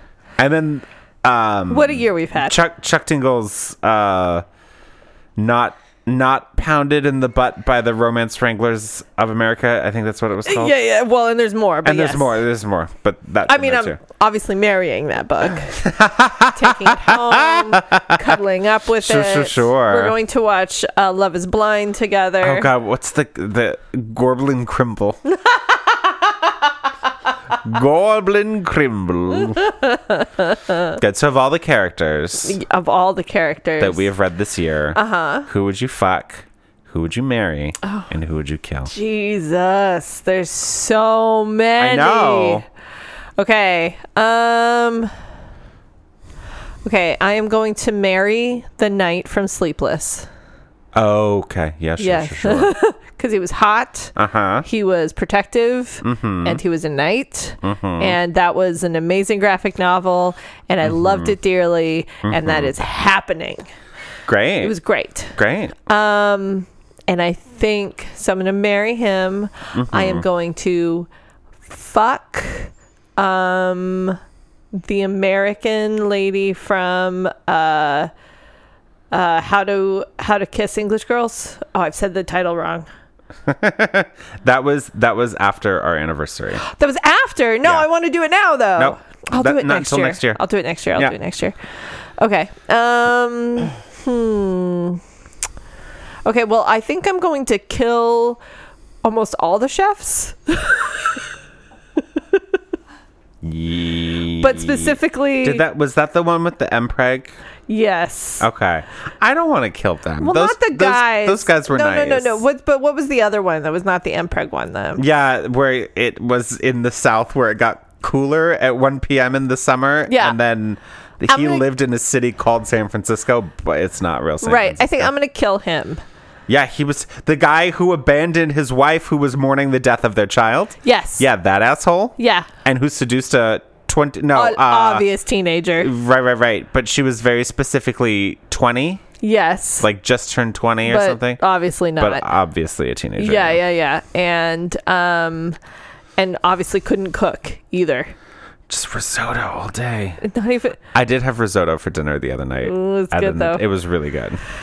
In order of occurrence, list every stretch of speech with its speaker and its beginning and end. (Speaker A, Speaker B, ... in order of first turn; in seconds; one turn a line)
Speaker A: 0.4-4.5
Speaker B: 1.7-2.6
Speaker A: 5.4-10.8
Speaker B: 10.4-12.3
Speaker A: 11.8-14.0
Speaker B: 13.5-15.8
Speaker A: 15.7-18.3
Speaker B: 16.5-22.7
Speaker A: 19.0-20.1
Speaker A: 22.4-25.2
Speaker A: 27.6-29.7
Speaker B: 30.4-30.8
Speaker A: 30.9-32.6
Speaker B: 32.4-34.1
Speaker A: 33.8-38.9
Speaker B: 34.9-35.5
Speaker B: 38.9-42.6
Speaker A: 41.8-42.6
Speaker B: 43.4-45.1
Speaker B: 46.8-50.3
Speaker A: 50.9-52.8
Speaker B: 52.0-54.1
Speaker A: 54.2-54.7
Speaker B: 54.6-63.7
Speaker A: 56.0-56.6
Speaker A: 57.6-58.2
Speaker A: 60.8-61.4
Speaker A: 62.2-62.7
Speaker A: 64.3-64.8
Speaker B: 64.6-71.1
Speaker A: 65.3-65.8
Speaker A: 69.7-70.3
Speaker B: 71.7-74.2
Speaker B: 74.7-78.1
Speaker B: 79.1-82.9
Speaker A: 83.5-86.6
Speaker B: 86.6-91.6
Speaker A: 88.8-90.4
Speaker B: 92.2-95.0
Speaker B: 96.2-98.4
Speaker B: 99.0-101.2
Speaker A: 103.4-107.4
Speaker B: 104.4-105.7
Speaker B: 107.7-108.5
Speaker A: 108.4-112.4
Speaker B: 110.2-115.0
Speaker A: 115.0-125.1
Speaker B: 120.1-120.4
Speaker B: 121.3-121.7
Speaker B: 124.4-126.0
Speaker A: 126.5-135.1
Speaker B: 130.8-131.2
Speaker B: 132.2-132.5
Speaker B: 134.3-135.9
Speaker A: 135.8-139.0
Speaker B: 139.2-139.9
Speaker A: 139.8-141.4
Speaker B: 140.8-142.3
Speaker A: 142.0-143.6
Speaker B: 143.2-145.6
Speaker B: 146.2-148.1
Speaker A: 148.7-150.2
Speaker B: 150.2-150.8
Speaker A: 150.9-154.4
Speaker B: 152.6-153.6